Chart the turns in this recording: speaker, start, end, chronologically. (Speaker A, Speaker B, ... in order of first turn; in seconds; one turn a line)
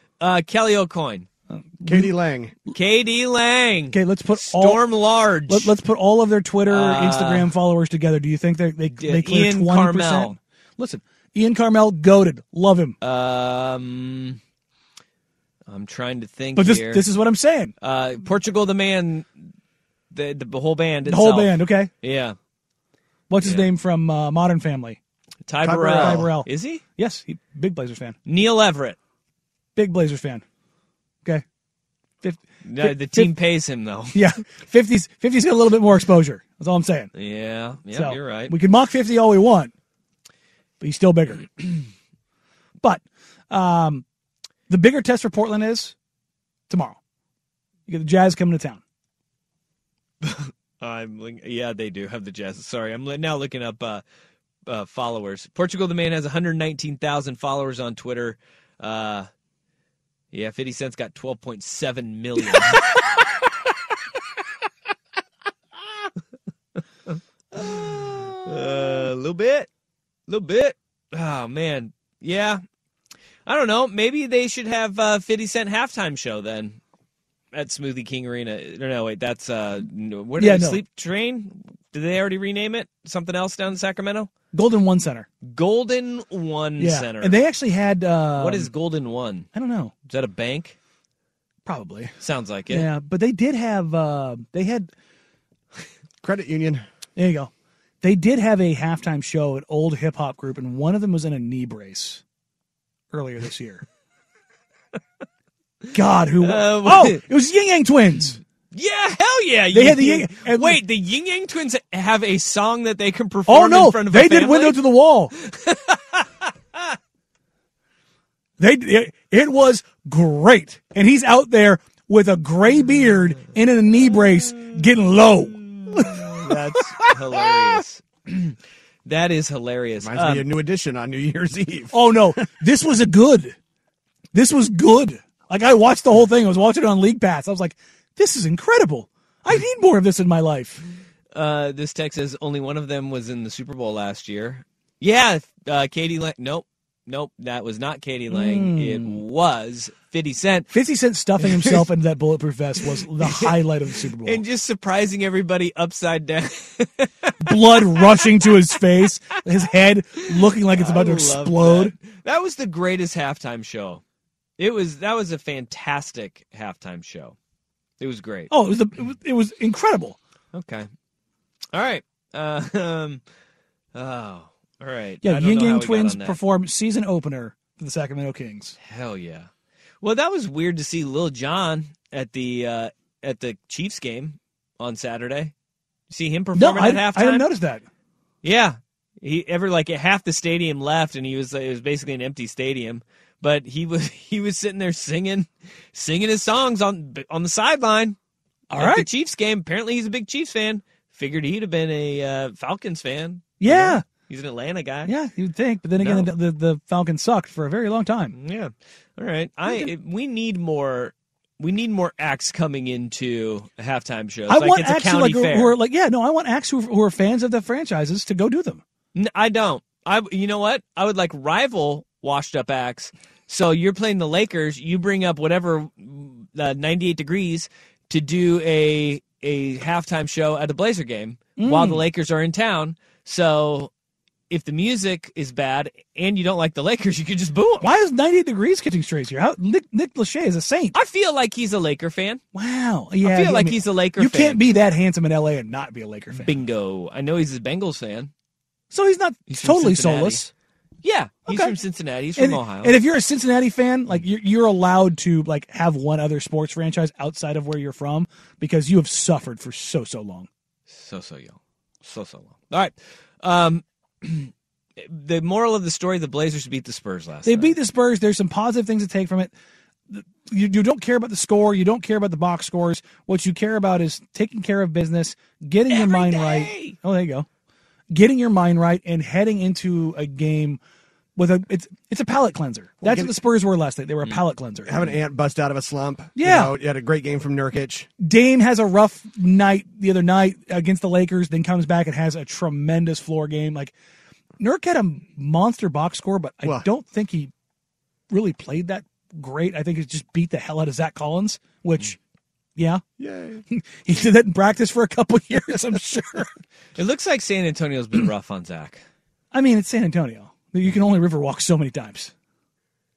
Speaker A: 0.2-1.3
Speaker B: 1.5-2.1
Speaker C: 1.9-2.5
Speaker A: 2.7-5.7
Speaker B: 3.9-4.8
Speaker B: 5.5-13.0
Speaker A: 6.7-7.5
Speaker A: 9.0-10.4
Speaker A: 13.0-14.4
Speaker A: 15.7-17.1
Speaker B: 16.6-17.7
Speaker A: 17.8-19.5
Speaker A: 20.1-22.4
Speaker B: 21.1-21.9
Speaker B: 23.3-25.0
Speaker A: 23.4-23.7
Speaker A: 25.5-26.8
Speaker C: 25.6-26.3
Speaker B: 25.9-28.2
Speaker A: 28.3-29.0
Speaker B: 29.8-30.4
Speaker B: 32.2-33.3
Speaker A: 32.6-34.2
Speaker B: 34.1-37.1
Speaker A: 37.1-38.5
Speaker B: 37.9-39.7
Speaker B: 40.8-41.6
Speaker B: 42.8-44.0
Speaker B: 44.7-46.0
Speaker B: 46.7-47.0
Speaker B: 47.9-48.8
Speaker A: 50.2-54.0
Speaker A: 54.7-59.3
Speaker A: 60.3-63.5
Speaker A: 67.1-69.7
Speaker A: 70.3-72.6
Speaker A: 73.5-76.8
Speaker A: 77.5-84.3
Speaker B: 80.4-80.8
Speaker B: 84.5-85.3
Speaker A: 85.4-87.4
Speaker B: 86.8-88.7
Speaker A: 88.4-89.5
Speaker B: 89.5-89.9
Speaker A: 90.1-90.8
Speaker B: 91.7-92.2
Speaker A: 92.2-92.9
Speaker B: 92.7-94.9
Speaker C: 96.2-96.8
Speaker B: 97.2-97.5
Speaker B: 98.0-102.2
Speaker B: 103.1-103.8
Speaker B: 105.9-108.4
Speaker A: 106.4-107.2
Speaker A: 108.7-114.8
Speaker B: 109.7-110.8
Speaker B: 113.5-115.3
Speaker A: 115.3-117.0
Speaker B: 118.6-127.2
Speaker A: 125.8-130.5
Speaker C: 130.0-132.2
Speaker B: 131.9-133.6
Speaker B: 134.3-140.8
Speaker A: 141.3-150.7
Speaker B: 148.3-149.2
Speaker B: 150.7-154.4
Speaker A: 151.4-151.8
Speaker A: 153.2-153.6
Speaker A: 154.2-158.5
Speaker B: 157.4-161.9
Speaker A: 160.3-164.0
Speaker A: 164.6-167.4
Speaker A: 168.0-168.5
Speaker B: 168.5-170.2
Speaker A: 170.5-170.9
Speaker A: 171.7-173.2
Speaker A: 173.9-176.4
Speaker B: 175.2-178.8
Speaker A: 178.8-179.5
Speaker A: 180.0-185.5
Speaker A: 186.1-187.5
Speaker B: 186.6-187.8
Speaker A: 188.4-198.2
Speaker B: 198.7-199.1
Speaker A: 198.8-205.1
Speaker B: 203.6-204.0
Speaker B: 205.1-208.3
Speaker A: 206.0-206.3
Speaker A: 208.3-215.8
Speaker B: 209.7-209.9
Speaker B: 214.5-218.8
Speaker A: 219.2-233.9
Speaker B: 231.6-232.0
Speaker A: 234.5-237.9
Speaker B: 237.8-241.0
Speaker A: 240.9-242.4
Speaker B: 242.5-246.6
Speaker A: 243.2-244.6
Speaker A: 246.3-248.3
Speaker B: 248.9-250.5
Speaker A: 249.5-250.5
Speaker A: 251.0-252.9
Speaker B: 251.5-251.7
Speaker B: 252.4-260.5
Speaker A: 260.9-267.8
Speaker B: 267.4-269.5
Speaker B: 270.1-277.5
Speaker A: 275.9-277.0
Speaker B: 278.1-280.8
Speaker B: 281.4-284.9
Speaker C: 283.0-283.3
Speaker C: 284.9-288.1
Speaker B: 286.4-286.7
Speaker B: 288.2-293.9
Speaker B: 294.6-297.5
Speaker B: 298.3-302.2
Speaker B: 302.8-303.0
Speaker C: 303.2-303.6
Speaker B: 303.7-306.5
Speaker A: 307.0-309.0
Speaker B: 309.5-312.3